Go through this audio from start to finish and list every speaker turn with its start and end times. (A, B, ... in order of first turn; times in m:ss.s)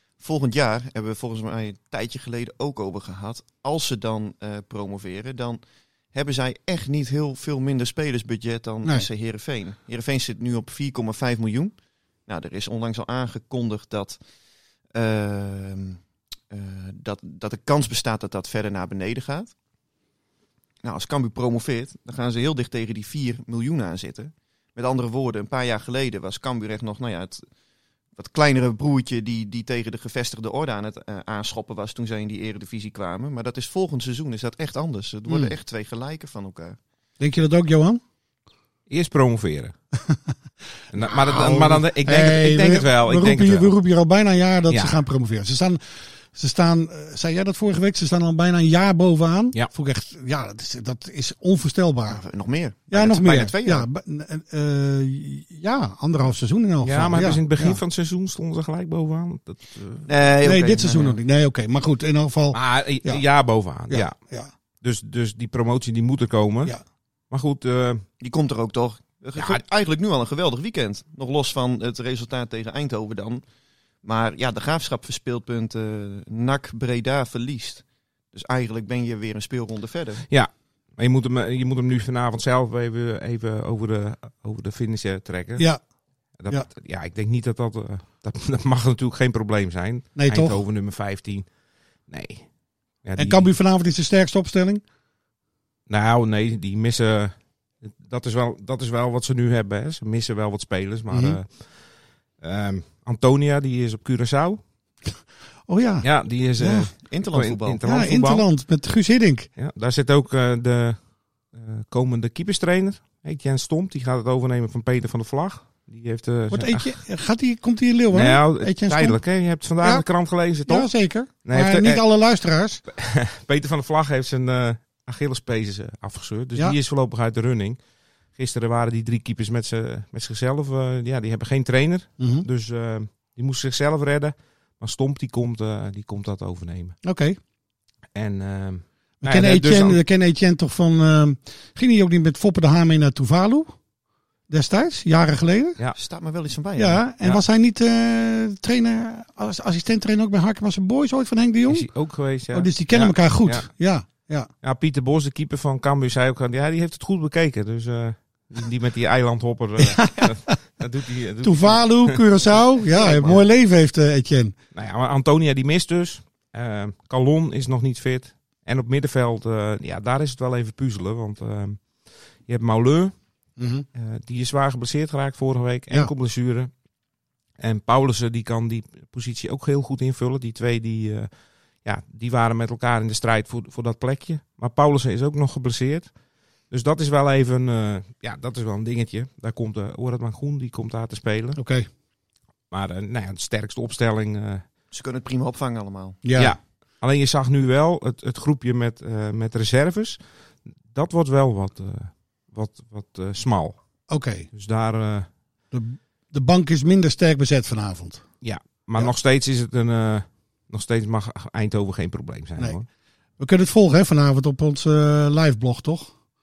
0:00.2-0:05.6 A
0:06.1-0:11.8 A
0:12.3-0:14.2 A
0:14.9-0:19.5 A
0:20.8-0:27.4 A
0:28.2-0:36.8 A
0:35.3-0:35.5 B
0:37.2-0:38.0 B
0:38.9-0:39.7 C
0:40.9-0:43.7 C
0:41.0-0:45.8 B
0:44.7-0:45.0 C
0:46.3-0:52.2 B
0:52.1-0:53.8 A
0:52.9-0:57.8 B
0:56.8-1:00.1 C
1:00.1-1:01.2 A
1:00.4-1:03.2 B
1:02.5-1:04.2 C
1:03.9-1:04.5 B
1:04.8-1:06.8 C
1:07.3-1:08.0 C
1:08.2-1:13.4 A
1:09.4-1:09.6 C
1:14.0-1:20.2 A
1:20.3-1:25.7 C
1:26.4-1:31.5 C
1:30.2-1:30.6 B
1:32.1-1:32.5 C
1:33.0-1:33.5 C
1:33.2-1:34.8 B
1:35.9-1:41.7 C
1:41.1-1:41.4 B
1:42.4-1:44.6 C
1:45.7-1:46.9 B
1:46.0-1:48.5 C
1:47.1-1:47.8 A
1:47.8-1:49.5 B
1:49.6-1:51.0 C
1:51.5-1:57.0 C
1:56.5-1:59.2 B
1:58.1-2:00.9 C
1:59.8-2:00.1 B
2:00.7-2:02.8 B
2:01.5-2:02.0 C
2:02.9-2:07.8 C
2:08.4-2:17.0 C
2:12.2-2:12.5 B
2:17.0-2:17.4 B
2:18.2-2:20.0 C
2:19.2-2:23.8 B
2:24.5-2:25.8 B
2:26.0-2:27.0 A
2:26.8-2:31.9 B
2:31.7-2:33.7 C
2:32.5-2:34.5 B
2:34.6-2:43.4 C
2:39.8-2:40.4 B
2:41.4-2:44.6 B
2:44.7-2:51.9 C
2:52.5-2:53.1 C
2:53.6-2:53.9 B
2:54.0-2:56.7 C
2:57.6-3:01.3 C
3:01.8-3:06.1 C
3:06.7-3:11.6 C
3:11.6-3:11.9 B
3:12.7-3:14.6 C
3:14.9-3:16.2 A
3:16.2-3:16.6 B
3:16.4-3:20.2 C
3:20.9-3:23.8 C
3:24.1-3:24.5 B
3:24.5-3:25.3 C
3:25.7-3:28.2 B
3:28.4-3:32.9 C
3:33.4-3:36.1 B